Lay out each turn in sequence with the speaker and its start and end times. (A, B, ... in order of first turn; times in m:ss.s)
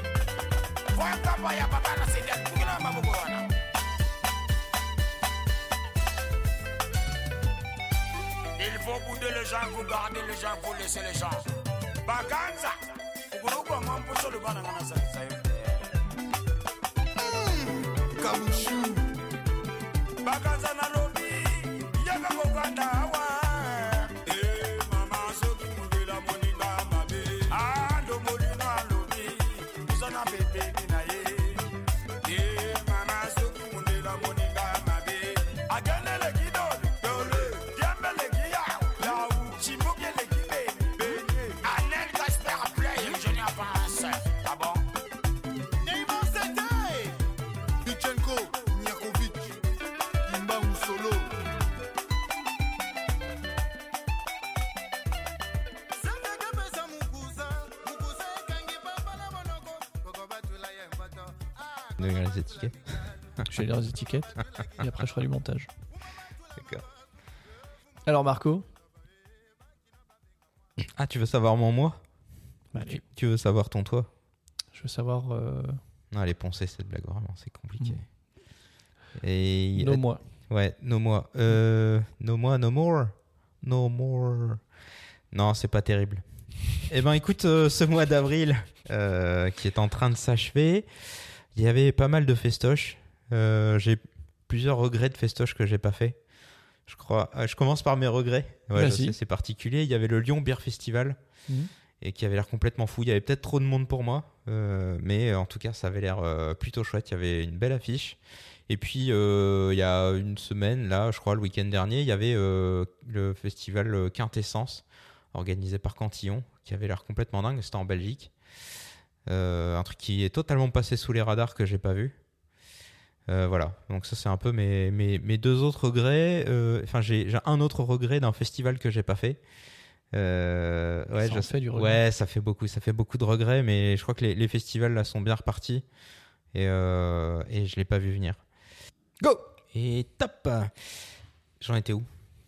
0:00.9-0:03.5 A
0:08.6-0:11.4 A
0:12.0-0:15.9 A
0:17.2-0:19.1 B
0:20.2-0:31.7 A
0:32.2-0:44.8 A
0:45.8-0:47.2 C
0:47.8-0:49.6 B
0:50.2-0:51.3 B
0:55.9-1:02.3 C
1:02.0-1:02.8 D
1:03.4-1:05.7 E
1:06.6-1:06.8 D
1:08.0-1:08.6 E
1:10.8-1:12.0 D
1:12.7-1:13.0 E
1:12.8-1:14.1 D
1:14.7-1:15.8 E
1:16.1-1:18.0 D
1:19.2-1:24.6 D
1:19.8-1:20.2 E
1:25.3-1:26.2 D
1:26.8-1:30.9 D
1:31.5-1:36.2 D
1:36.9-1:41.2 D
1:38.7-1:39.2 E
1:42.0-1:58.3 D
1:59.3-2:02.2 D
2:03.3-2:09.4 D
2:10.1-2:15.8 D
2:11.2-2:12.0 E
2:16.5-2:18.4 D
2:19.7-2:20.7 D
2:21.6-2:22.1 D